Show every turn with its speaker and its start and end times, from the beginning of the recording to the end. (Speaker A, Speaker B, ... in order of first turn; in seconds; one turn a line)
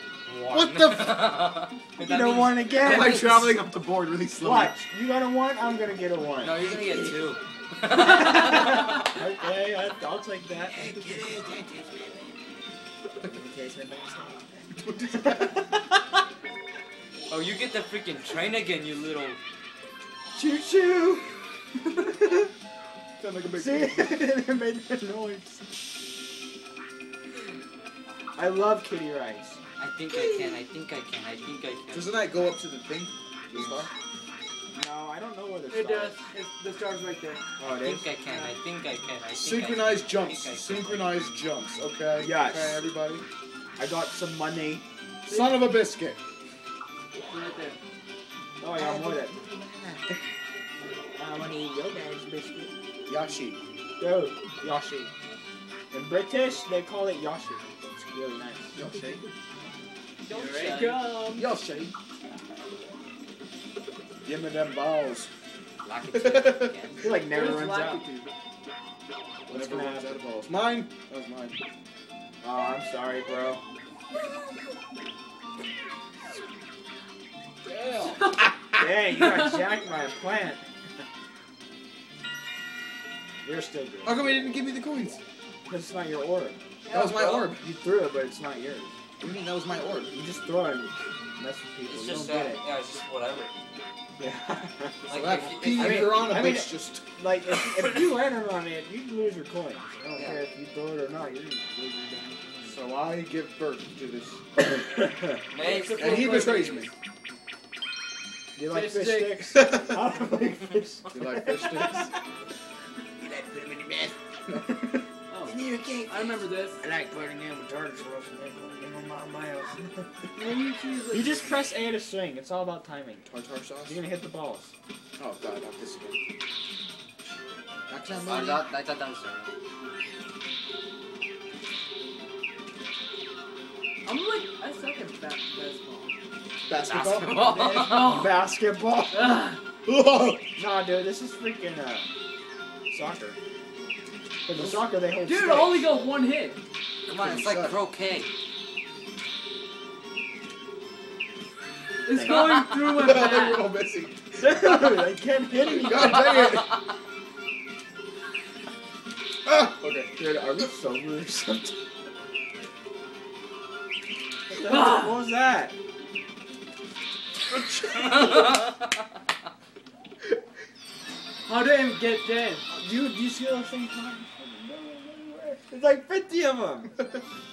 Speaker A: 0.2-3.1
Speaker B: 0.5-1.3
Speaker C: 2.0-3.6
Speaker B: 2.8-4.8
Speaker C: 4.4-6.5
Speaker A: 6.4-9.0
Speaker B: 6.5-7.3
Speaker C: 8.7-11.2
Speaker B: 10.7-12.2
Speaker C: 13.2-14.6
Speaker B: 14.7-15.6
Speaker C: 15.2-15.8
Speaker A: 17.3-19.4
Speaker C: 20.3-21.3
Speaker C: 21.9-22.5
Speaker B: 23.2-24.2
Speaker C: 23.5-25.6
Speaker C: 28.4-29.6
Speaker A: 29.8-32.2
Speaker B: 31.9-33.9
Speaker C: 33.5-33.9
Speaker C: 34.7-36.2
Speaker D: 35.7-37.4
Speaker C: 37.6-38.1
Speaker A: 37.8-41.2
Speaker D: 38.2-38.5
Speaker B: 39.3-43.2
Speaker C: 42.2-42.8
Speaker C: 43.8-44.8
Speaker B: 45.2-46.2
Speaker D: 45.3-45.7
Speaker D: 47.3-47.8
Speaker C: 48.6-49.4
Speaker B: 48.7-50.1
Speaker C: 51.1-52.7
Speaker B: 53.1-53.6
Speaker C: 54.0-55.1
Speaker C: 55.9-58.7
Speaker B: 58.7-59.2
Speaker A: 60.2-61.1
Speaker D: 60.3-61.5
Speaker B: 61.2-61.9
Speaker B: 64.2-65.3
Speaker A: 65.8-67.1
Speaker B: 66.1-66.7
Speaker C: 67.0-68.0
Speaker D: 67.2-68.3
Speaker C: 69.5-70.2
Speaker B: 69.5-71.6
Speaker C: 72.4-73.6
Speaker B: 77.6-78.4
Speaker C: 78.8-80.6
Speaker C: 83.4-84.2
Speaker B: 84.0-85.2
Speaker C: 85.7-88.9
Speaker D: 86.9-87.2
Speaker B: 86.9-87.7
Speaker B: 89.2-90.2
Speaker C: 90.1-92.7
Speaker A: 91.9-93.5
Speaker C: 94.2-95.0
Speaker A: 95.0-96.3
Speaker B: 95.1-97.0
Speaker C: 95.6-102.4
Speaker A: 97.5-98.2
Speaker A: 100.1-100.4
Speaker B: 102.7-104.4
Speaker C: 104.9-105.4
Speaker A: 105.5-106.7
Speaker D: 105.6-106.9
Speaker B: 105.9-106.9
Speaker C: 108.5-112.0
Speaker D: 108.7-109.8
Speaker B: 111.1-112.1
Speaker C: 113.2-114.1
Speaker B: 113.2-114.6
Speaker D: 115.3-116.8
Speaker A: 115.5-115.9
Speaker C: 115.8-116.1
Speaker C: 116.8-120.2
Speaker D: 120.3-121.6
Speaker C: 121.1-123.3
Speaker B: 123.2-124.0
Speaker C: 123.8-124.7
Speaker B: 125.2-126.2
Speaker B: 127.9-128.7
Speaker A: 128.1-129.5
Speaker D: 134.0-136.1
Speaker B: 136.7-137.5
Speaker A: 136.8-138.2
Speaker D: 137.3-138.4
Speaker C: 138.0-139.5
Speaker D: 139.1-139.6
Speaker B: 139.8-140.5
Speaker C: 140.6-142.1
Speaker C: 142.9-143.4
Speaker C: 144.4-145.9
Speaker B: 144.5-144.8
Speaker D: 145.2-146.6
Speaker A: 147.1-148.3
Speaker B: 147.1-147.8
Speaker D: 152.0-153.7
Speaker C: 152.1-152.6
Speaker B: 152.2-156.8
Speaker C: 154.3-156.4
Speaker B: 159.4-160.1
Speaker C: 160.2-161.8
Speaker C: 164.5-165.7
Speaker D: 164.6-165.2
Speaker B: 167.5-168.6
Speaker D: 171.4-172.7
Speaker C: 172.8-177.0